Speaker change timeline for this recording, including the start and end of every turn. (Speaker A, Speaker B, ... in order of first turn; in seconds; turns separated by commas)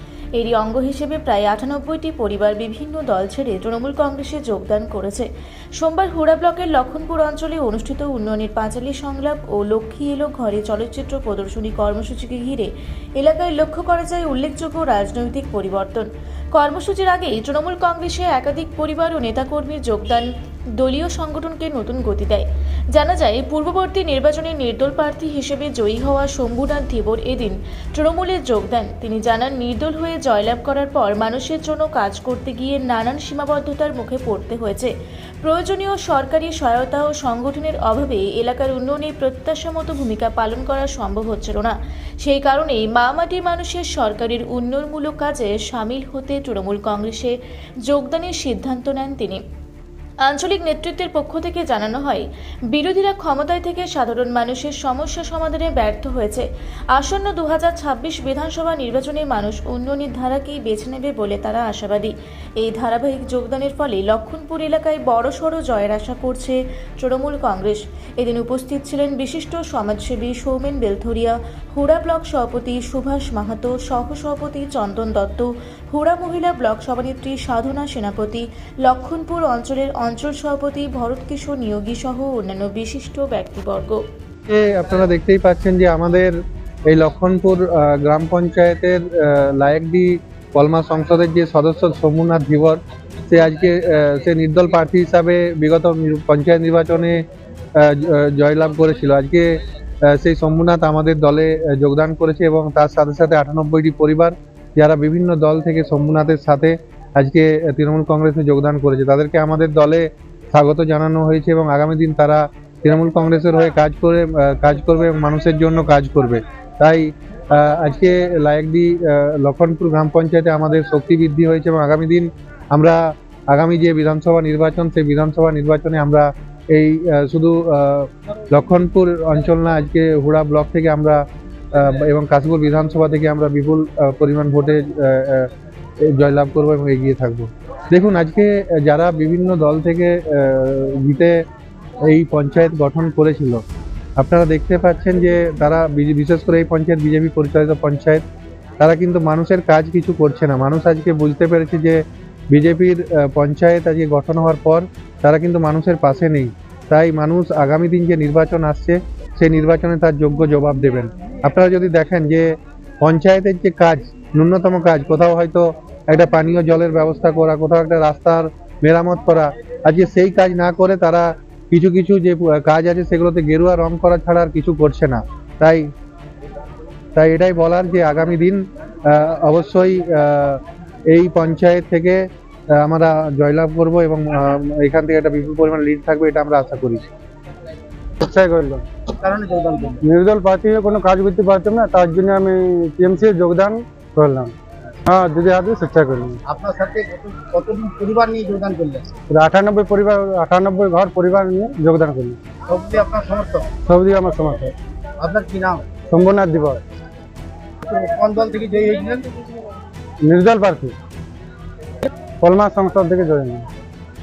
Speaker A: 0.3-34.9, Speaker A: 35.4-49.4, Speaker A: 50.2-84.0, Speaker B: 84.5-86.3, Speaker B: 86.9-97.2, Speaker B: 97.8-123.0, Speaker B: 123.5-131.2, Speaker B: 131.7-135.5, Speaker B: 136.0-141.3, Speaker B: 142.1-143.6, Speaker B: 144.2-148.2, Speaker B: 148.8-175.9, Speaker B: 177.1-182.2, Speaker B: 182.7-187.0, Speaker C: 188.2-188.8, Speaker D: 189.2-190.0, Speaker C: 190.0-194.5, Speaker C: 195.0-196.4, Speaker D: 196.5-199.1, Speaker C: 199.3-202.4, Speaker D: 202.7-203.7, Speaker C: 203.8-204.7, Speaker D: 205.2-205.8, Speaker C: 206.1-206.8, Speaker D: 207.8-209.3, Speaker C: 210.2-210.9, Speaker C: 212.4-213.7